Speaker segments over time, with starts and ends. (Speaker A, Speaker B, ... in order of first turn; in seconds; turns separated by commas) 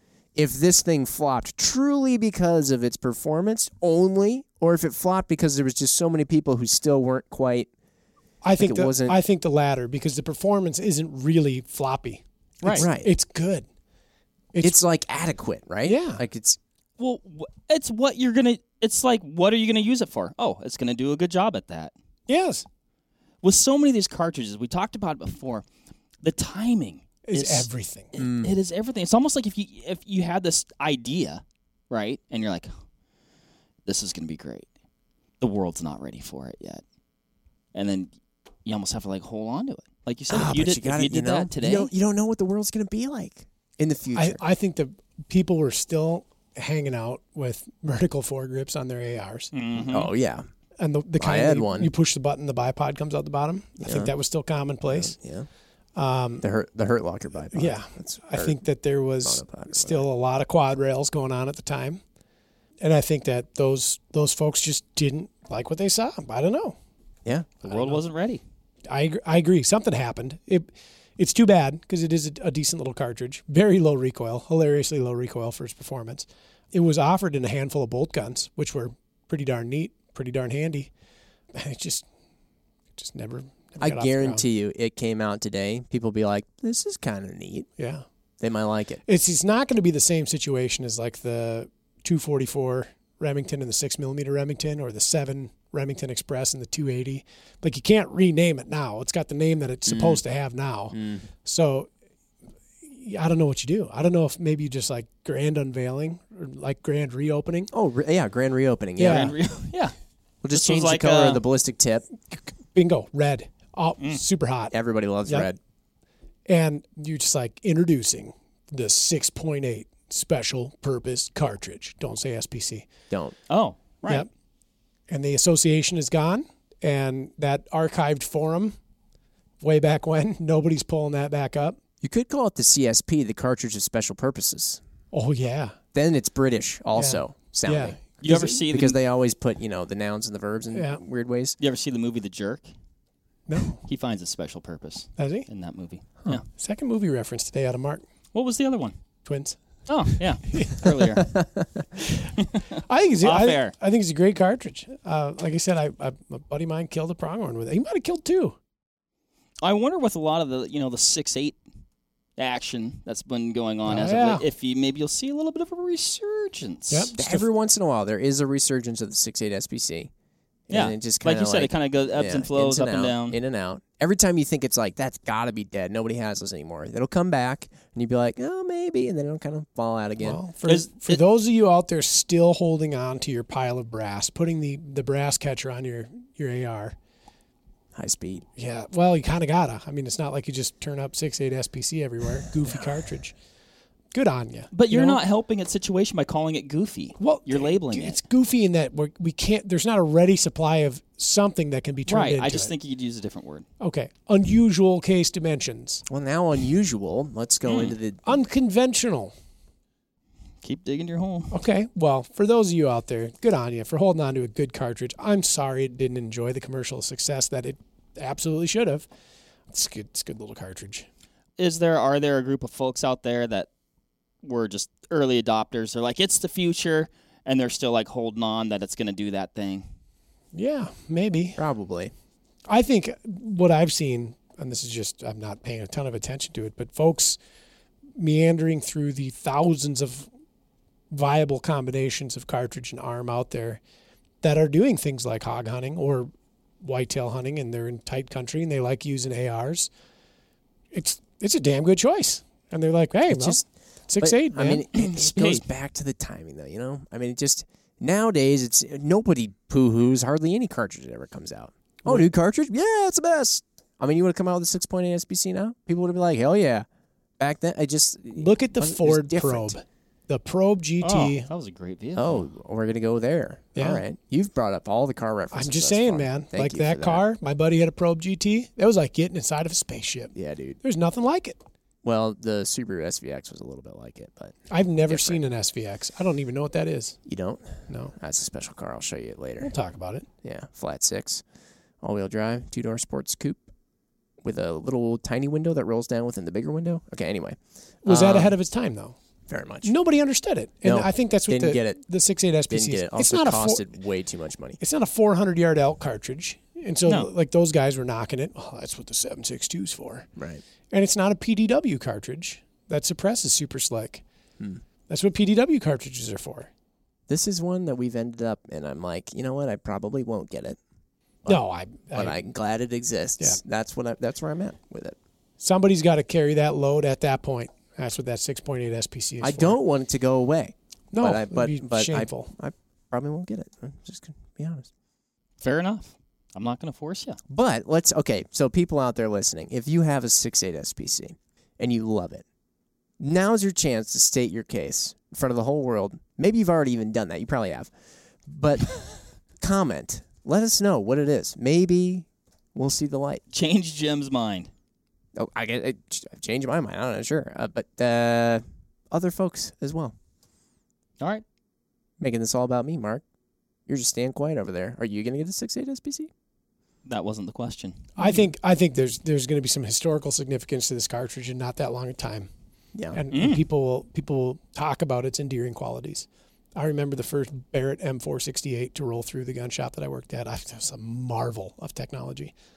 Speaker A: 0.3-7.7, Speaker B: 8.4-13.6, Speaker A: 8.6-9.2, Speaker C: 12.6-12.9, Speaker A: 12.7-13.1, Speaker B: 14.5-14.8, Speaker A: 14.6-16.6, Speaker B: 15.8-16.2, Speaker C: 17.0-21.9, Speaker B: 22.3-22.6, Speaker C: 23.4-25.6, Speaker C: 26.2-32.7, Speaker B: 27.3-28.1, Speaker A: 28.2-28.5, Speaker C: 33.9-34.6, Speaker C: 35.4-36.8, Speaker C: 37.7-38.1, Speaker C: 38.6-41.9, Speaker A: 40.3-44.4, Speaker B: 44.1-49.5, Speaker C: 49.5-50.1, Speaker A: 49.8-50.5, Speaker B: 50.8-55.1, Speaker A: 51.2-51.9, Speaker A: 53.8-54.1, Speaker A: 54.9-55.5, Speaker B: 56.0-56.5, Speaker A: 56.4-58.6, Speaker B: 57.5-62.0, Speaker A: 59.2-60.0, Speaker B: 62.8-66.7, Speaker A: 67.2-67.5, Speaker B: 67.6-68.0, Speaker C: 67.6-68.4, Speaker B: 68.9-80.9, Speaker B: 81.5-82.0, Speaker B: 83.0-84.4, Speaker A: 83.8-87.7, Speaker B: 87.8-88.0, Speaker A: 88.4-89.0, Speaker B: 89.0-101.9, Speaker A: 99.9-100.2, Speaker A: 100.9-101.3, Speaker B: 102.9-107.7, Speaker A: 107.7-109.3, Speaker B: 109.0-109.3, Speaker C: 109.0-109.9, Speaker A: 110.4-112.0, Speaker C: 110.5-111.4, Speaker B: 112.3-114.7, Speaker A: 114.7-115.6, Speaker B: 116.5-122.9, Speaker A: 123.1-123.3, Speaker C: 123.5-124.2, Speaker B: 125.1-128.8, Speaker B: 129.6-131.8, Speaker A: 132.0-134.8, Speaker B: 135.1-135.8, Speaker A: 135.9-141.6, Speaker B: 136.9-138.0, Speaker C: 138.2-139.0, Speaker B: 140.7-141.0, Speaker C: 141.6-142.7, Speaker B: 143.5-143.8, Speaker C: 143.8-146.4, Speaker B: 145.2-145.5, Speaker B: 146.3-148.0, Speaker C: 148.3-148.9, Speaker B: 149.2-149.6, Speaker C: 149.9-151.3, Speaker B: 150.5-150.9, Speaker B: 151.9-158.6, Speaker C: 152.4-152.6, Speaker C: 153.2-153.7, Speaker C: 159.6-161.6, Speaker C: 162.4-167.2, Speaker B: 163.8-164.4, Speaker B: 166.9-167.4, Speaker A: 167.2-170.1, Speaker A: 170.7-180.4, Speaker C: 170.7-173.4, Speaker B: 180.2-186.9, Speaker C: 180.7-181.2, Speaker A: 187.9-188.4, Speaker B: 188.6-193.3, Speaker B: 194.1-195.2, Speaker C: 194.7-198.2, Speaker B: 197.2-202.7, Speaker C: 202.1-203.6, Speaker B: 203.8-206.0, Speaker A: 206.1-208.2, Speaker C: 207.7-207.9, Speaker B: 208.2-209.3, Speaker C: 210.6-211.5, Speaker B: 211.5-219.1, Speaker B: 219.7-221.1, Speaker C: 221.6-223.7, Speaker C: 224.4-229.8, Speaker B: 230.5-231.6, Speaker A: 231.6-232.1, Speaker B: 232.7-237.4, Speaker B: 238.2-240.3, Speaker B: 241.1-243.8, Speaker B: 244.4-246.3, Speaker B: 246.8-249.9, Speaker B: 250.9-254.9, Speaker A: 253.3-253.6, Speaker A: 254.2-266.9, Speaker C: 255.0-255.6, Speaker B: 262.0-262.3, Speaker A: 267.4-269.7, Speaker B: 268.3-271.5, Speaker C: 271.0-272.4, Speaker A: 272.1-277.2, Speaker B: 273.8-274.0, Speaker B: 275.5-281.6, Speaker A: 280.3-280.8, Speaker A: 282.0-285.4, Speaker B: 284.7-287.2, Speaker A: 287.2-289.7, Speaker B: 287.9-288.1, Speaker B: 289.6-290.3, Speaker A: 290.4-291.4, Speaker A: 292.0-293.7, Speaker A: 294.4-298.5, Speaker B: 298.0-299.1, Speaker A: 299.5-299.9, Speaker B: 299.8-303.8, Speaker A: 300.8-302.0, Speaker A: 302.7-304.8, Speaker B: 304.8-310.3, Speaker A: 310.4-310.6, Speaker B: 310.9-314.2, Speaker B: 315.1-316.7, Speaker A: 317.3-320.8, Speaker B: 321.4-322.4, Speaker A: 322.1-325.2, Speaker B: 325.6-329.8, Speaker A: 329.4-334.9, Speaker B: 331.1-332.5, Speaker C: 335.6-337.4, Speaker A: 337.5-342.4, Speaker A: 343.2-347.9, Speaker A: 348.5-349.0, Speaker A: 349.6-353.4, Speaker C: 353.5-354.7, Speaker A: 355.4-360.1, Speaker A: 362.2-363.2, Speaker A: 363.9-366.3, Speaker C: 367.0-368.0, Speaker B: 368.2-372.5, Speaker A: 372.9-373.2, Speaker B: 373.1-382.5, Speaker C: 373.3-373.6